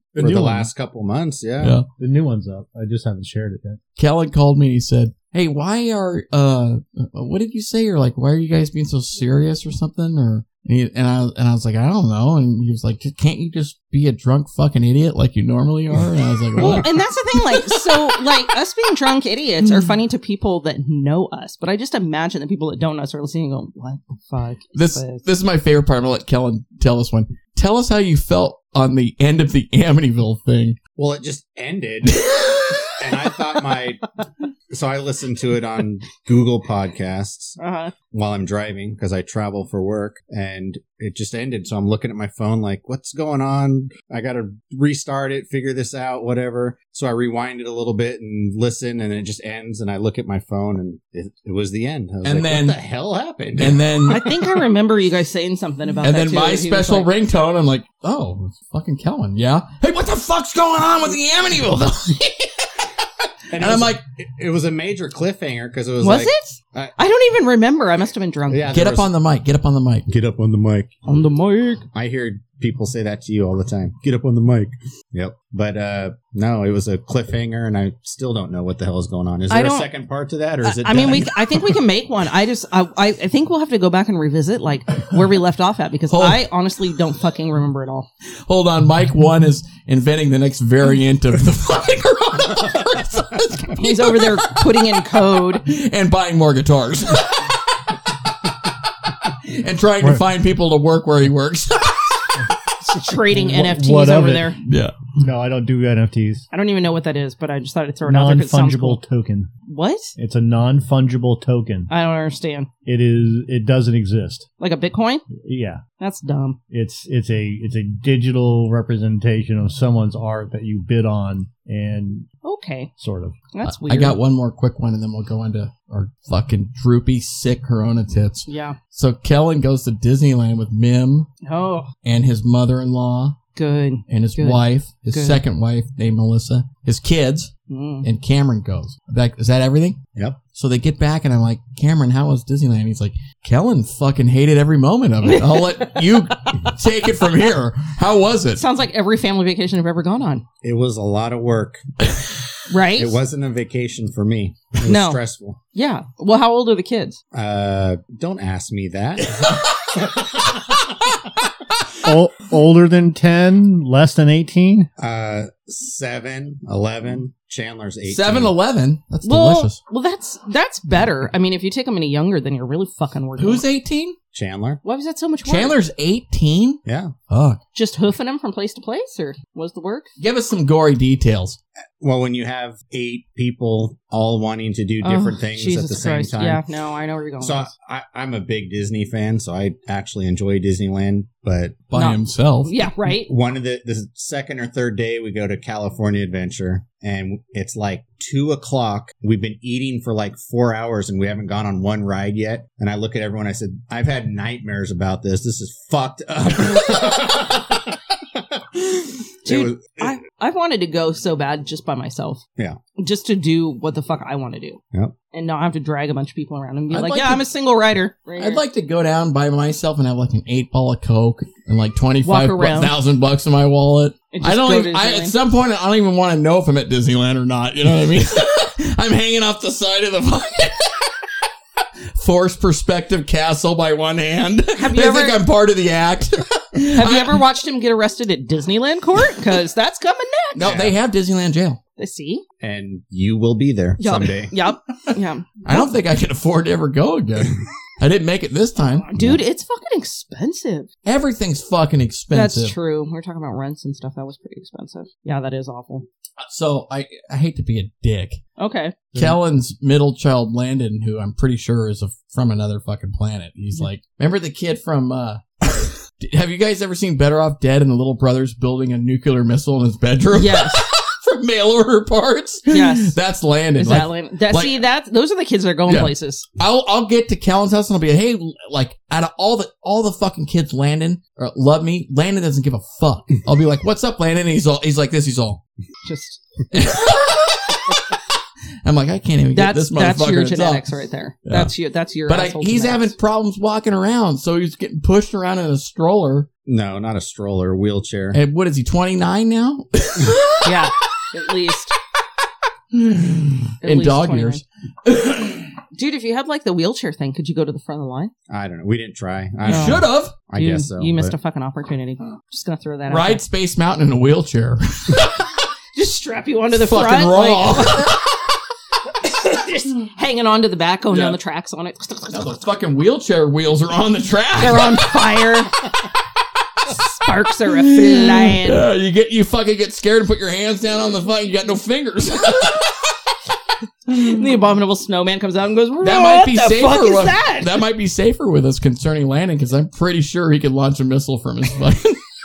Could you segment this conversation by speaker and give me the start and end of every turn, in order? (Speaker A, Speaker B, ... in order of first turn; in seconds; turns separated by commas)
Speaker A: 0.1-0.7, Speaker B: 0.2-1.8, Speaker C: 1.6-1.9, Speaker A: 2.0-3.8, Speaker C: 4.0-18.2, Speaker D: 16.6-25.2, Speaker C: 19.6-19.9, Speaker C: 24.7-30.8, Speaker B: 31.0-32.3, Speaker C: 32.2-32.9, Speaker B: 33.0-34.0, Speaker B: 34.7-37.6, Speaker D: 37.6-37.9, Speaker B: 38.1-54.5, Speaker C: 52.2-52.8, Speaker C: 53.6-54.2, Speaker D: 54.0-57.1, Speaker C: 56.0-64.0, Speaker B: 63.5-66.9, Speaker D: 66.0-68.7, Speaker B: 68.5-69.1, Speaker C: 68.7-70.1, Speaker B: 70.1-70.9, Speaker D: 71.0-71.9, Speaker B: 71.9-81.6, Speaker D: 79.5-79.9, Speaker D: 80.6-88.1, Speaker C: 86.1-86.4, Speaker C: 88.5-98.0, Speaker D: 93.7-95.7, Speaker C: 99.1-102.4, Speaker D: 102.9-104.6, Speaker A: 103.3-104.5, Speaker C: 104.7-105.0, Speaker A: 105.2-106.5, Speaker D: 106.5-109.0, Speaker A: 108.1-109.5, Speaker D: 109.7-110.1, Speaker A: 110.2-111.9, Speaker D: 111.9-112.7, Speaker A: 112.9-114.5, Speaker D: 114.6-115.3, Speaker A: 115.3-115.8, Speaker D: 116.0-116.6, Speaker A: 116.7-122.3, Speaker D: 122.4-122.9, Speaker A: 123.0-123.4, Speaker D: 123.5-124.2, Speaker C: 123.6-131.3, Speaker D: 128.5-128.8, Speaker D: 131.4-131.9, Speaker C: 132.0-133.4, Speaker D: 133.6-135.4, Speaker C: 134.1-137.5, Speaker D: 137.7-138.1, Speaker C: 138.0-140.0, Speaker C: 140.6-148.6, Speaker D: 145.2-146.7, Speaker D: 148.6-150.4, Speaker B: 150.6-151.9, Speaker D: 152.7-153.2, Speaker B: 152.9-155.6, Speaker D: 154.9-155.2, Speaker D: 155.8-157.2, Speaker B: 157.3-160.4, Speaker C: 159.4-160.0, Speaker A: 162.0-164.9, Speaker B: 165.0-168.5, Speaker C: 168.1-169.8, Speaker D: 169.2-173.6, Speaker C: 173.4-174.2, Speaker B: 174.3-174.8, Speaker D: 174.8-175.8, Speaker C: 175.4-177.6, Speaker B: 176.9-177.1, Speaker D: 177.8-180.1, Speaker C: 180.2-181.6, Speaker B: 182.0-186.6, Speaker D: 185.0-187.7, Speaker B: 187.4-191.8, Speaker C: 191.9-192.7, Speaker D: 191.9-193.3, Speaker B: 193.2-208.0, Speaker B: 208.6-210.1, Speaker D: 209.4-212.4, Speaker D: 213.0-214.8, Speaker D: 215.3-218.6, Speaker C: 216.9-217.4, Speaker C: 218.4-231.2, Speaker D: 222.2-222.9, Speaker D: 224.3-225.3, Speaker C: 231.8-237.4, Speaker D: 234.8-235.4, Speaker D: 236.9-240.7, Speaker C: 240.6-241.8, Speaker B: 240.6-240.9, Speaker D: 242.0-242.4, Speaker B: 242.6-244.5, Speaker D: 244.0-245.9, Speaker C: 245.6-249.1, Speaker D: 248.8-250.9, Speaker B: 249.2-249.4, Speaker C: 251.1-252.8, Speaker D: 252.3-256.1, Speaker C: 256.4-258.4, Speaker D: 258.6-259.1, Speaker C: 259.1-274.8, Speaker D: 270.4-270.9, Speaker D: 272.7-273.2, Speaker D: 273.8-276.5, Speaker C: 275.9-285.6, Speaker D: 286.1-286.4, Speaker C: 286.7-288.2, Speaker C: 288.8-290.9, Speaker D: 289.6-293.1, Speaker C: 291.5-291.7, Speaker C: 292.3-296.5, Speaker B: 296.7-298.4, Speaker C: 298.3-301.2, Speaker D: 300.6-302.0, Speaker C: 302.9-305.8, Speaker D: 303.8-304.6, Speaker D: 305.9-308.3, Speaker B: 308.5-311.3, Speaker D: 309.6-310.0, Speaker C: 309.7-310.4, Speaker D: 310.6-313.4, Speaker C: 313.1-315.5, Speaker D: 315.9-318.1, Speaker C: 316.7-318.5, Speaker D: 319.4-322.5, Speaker C: 321.1-321.4, Speaker C: 322.3-325.7, Speaker D: 324.6-325.8, Speaker D: 326.9-328.8, Speaker C: 327.7-333.1, Speaker D: 334.1-337.8, Speaker C: 336.0-342.2